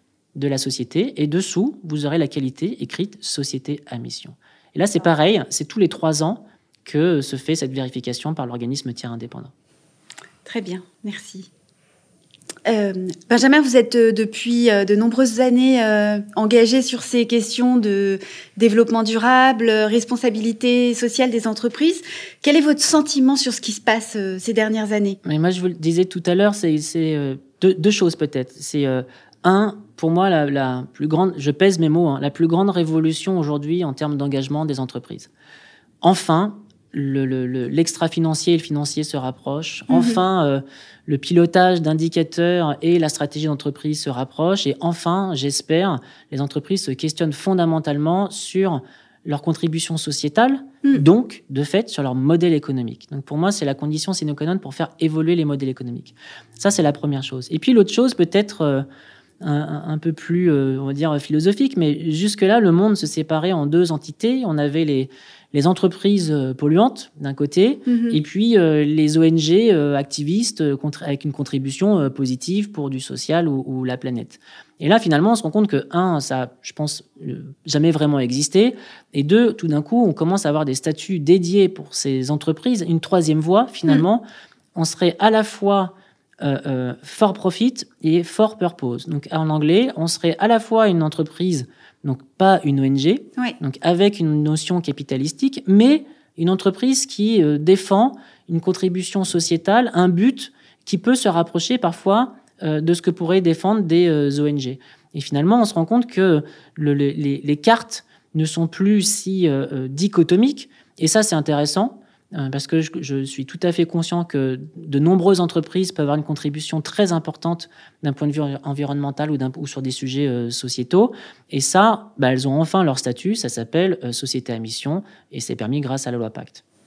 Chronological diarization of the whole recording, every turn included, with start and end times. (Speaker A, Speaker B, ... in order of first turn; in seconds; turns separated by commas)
Speaker A: 0.3-9.5, Speaker B: 10.4-11.5, Speaker B: 12.6-25.2, Speaker A: 25.2-35.3, Speaker A: 36.0-58.9, Speaker B: 39.9-40.2, Speaker A: 59.4-84.2, Speaker B: 67.9-68.2, Speaker A: 84.7-126.6